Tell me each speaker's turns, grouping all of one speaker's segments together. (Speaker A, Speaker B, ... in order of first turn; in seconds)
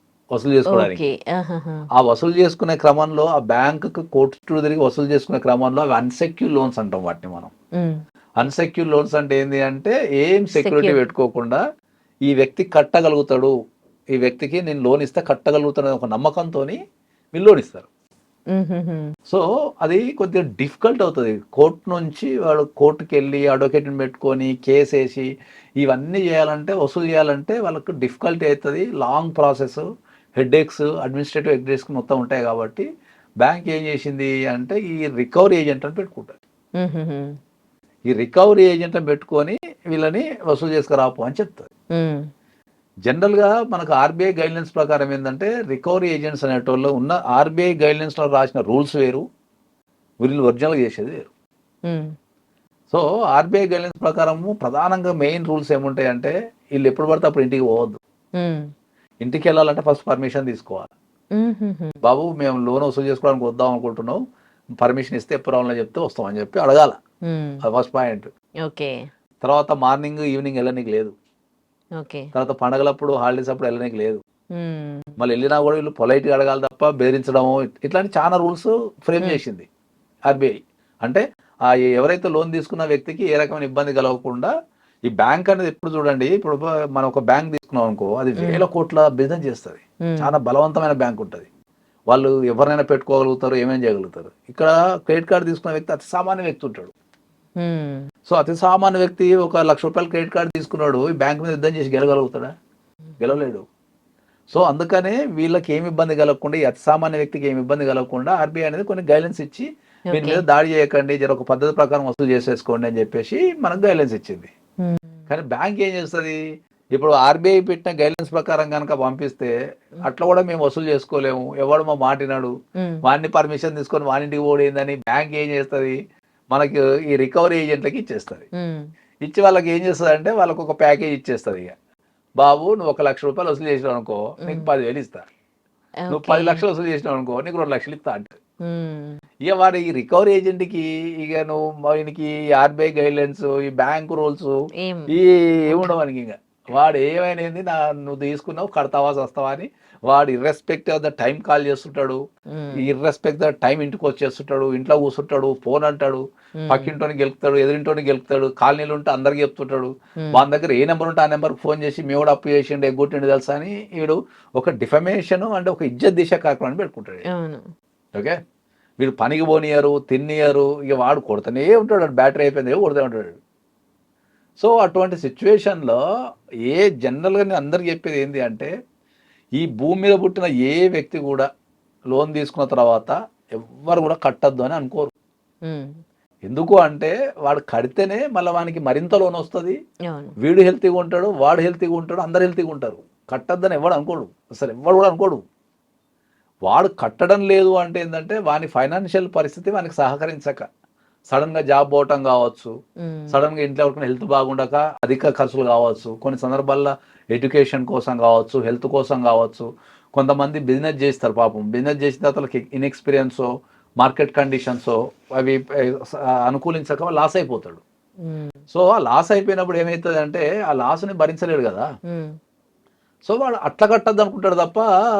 Speaker A: 0.3-1.0, 1.9-7.5, 8.4-11.6, 12.3-13.5, 14.2-16.8, 17.3-17.9, 19.3-25.3, 25.8-29.8, 30.4-32.8, 33.4-36.4, 38.1-41.7, 43.1-49.2, 50.2-51.3, 52.9-58.0, 59.2-60.9, 62.0-64.2, 64.8-67.0, 67.6-68.3, 69.4-71.1, 72.3-74.2, 75.2-79.7, 80.3-84.5, 85.1-91.5, 92.1-96.9, 98.3-102.5, 103.2-103.6, 104.5-114.5, 115.3-116.4, 116.9-122.5, 123.0-126.0, 126.5-128.5, 129.2-131.7, 132.4-135.2, 136.1-138.4, 139.4-144.5, 145.1-152.2, 152.8-167.2, 169.0-173.3, 174.6-176.0, 176.7-178.7, 179.5-181.5, 182.1-185.1, 186.4-189.8, 190.4-195.4, 196.7-200.6, 201.3-202.7, 203.3-213.5, 214.0-217.8, 218.7-221.9, 223.2-224.9
Speaker B: 0.7-1.9, 10.6-11.0, 18.5-19.1, 36.8-37.3, 41.9-42.2, 58.4-58.7, 61.3-62.0, 67.3-67.6, 68.6-68.9, 72.0-72.3, 74.5-75.1, 90.0-90.3, 97.6-98.0, 110.1-110.4, 114.8-115.2, 122.8-123.0, 128.6-128.8, 136.1-136.6, 138.6-139.2, 144.8-145.1, 152.5-152.8, 156.6-156.9, 167.3-167.7, 190.1-190.3, 203.0-203.4, 218.2-218.6, 222.1-222.3